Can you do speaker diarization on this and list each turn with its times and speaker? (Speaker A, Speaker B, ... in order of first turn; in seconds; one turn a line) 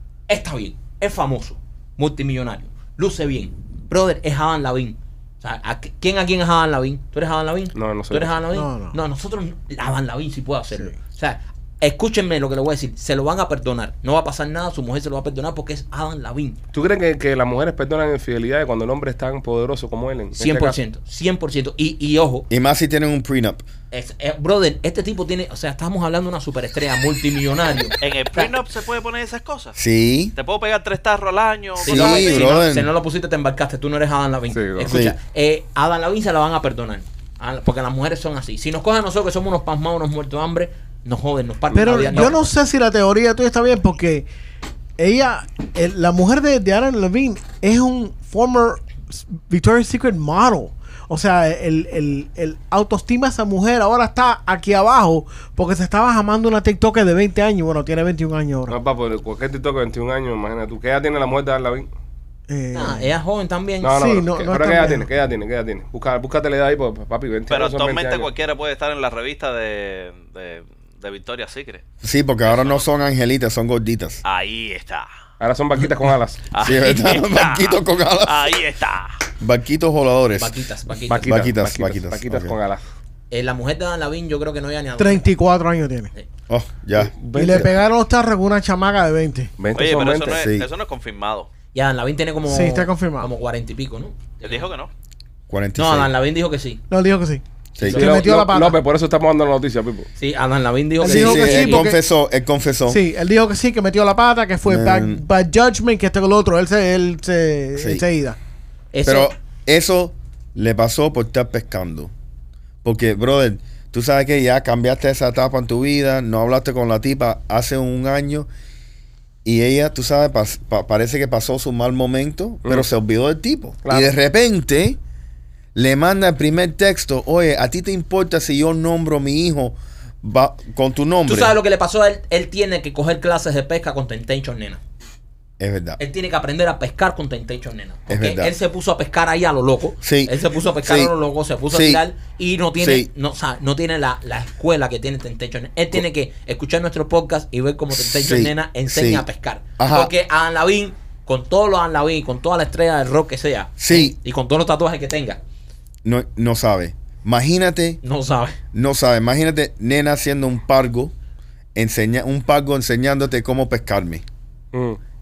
Speaker A: 0.3-16.6
Speaker B: 7.8-8.4
Speaker C: 8.5-8.9
Speaker B: 16.7-20.8
Speaker A: 20.4-22.5
Speaker D: 22.5-23.6
Speaker A: 23.9-28.5
Speaker E: 28.0-29.8
Speaker D: 29.8-30.3
Speaker E: 30.4-32.6
Speaker A: 31.8-42.4
Speaker D: 31.8-32.9
Speaker B: 34.5-34.9
Speaker D: 34.9-35.2
Speaker C: 41.7-44.3
Speaker C: 45.0-58.8
Speaker B: 58.7-61.9
Speaker C: 62.5-63.1
Speaker A: 62.7-64.0
Speaker B: 63.8-68.3
Speaker C: 63.9-65.1
Speaker E: 67.5-71.8
Speaker D: 72.0-74.2
Speaker E: 72.5-72.8
Speaker E: 74.2-75.1
Speaker B: 75.4-76.5
Speaker E: 76.5-79.2
Speaker D: 76.6-78.5
Speaker D: 79.4-80.5
Speaker A: 80.3-81.4
Speaker B: 81.1-82.8
Speaker D: 81.2-82.5
Speaker A: 83.3-85.3
Speaker C: 85.0-86.1
Speaker D: 86.5-87.6
Speaker B: 87.0-87.7
Speaker C: 87.3-89.5
Speaker B: 89.6-90.4
Speaker E: 89.8-91.5
Speaker D: 90.3-90.7
Speaker A: 91.7-94.7
Speaker C: 92.5-93.3
Speaker E: 94.5-94.9
Speaker D: 95.5-96.1
Speaker A: 95.8-96.8
Speaker C: 96.9-98.8
Speaker D: 97.8-98.2
Speaker A: 97.8-98.3
Speaker B: 97.9-100.1
Speaker A: 100.2-101.9
Speaker C: 101.0-102.0
Speaker D: 101.0-103.0
Speaker C: 102.9-108.4
Speaker D: 104.7-105.2
Speaker D: 107.8-108.0
Speaker A: 108.9-109.3
Speaker D: 109.1-112.1
Speaker D: 112.8-118.5
Speaker D: 119.5-125.0
Speaker B: 122.7-122.9
Speaker B: 123.8-124.1
Speaker D: 125.8-131.6
Speaker A: 131.3-134.8
Speaker D: 135.6-136.0
Speaker A: 136.0-155.4
Speaker D: 138.1-138.5
Speaker D: 140.0-141.1
Speaker D: 141.7-142.0
Speaker D: 142.8-143.1
Speaker D: 147.9-149.2
Speaker D: 149.8-150.1
Speaker D: 153.8-154.2
Speaker D: 156.0-158.0
Speaker A: 158.0-158.6
Speaker D: 158.7-161.1
Speaker D: 161.8-164.2
Speaker B: 164.7-165.0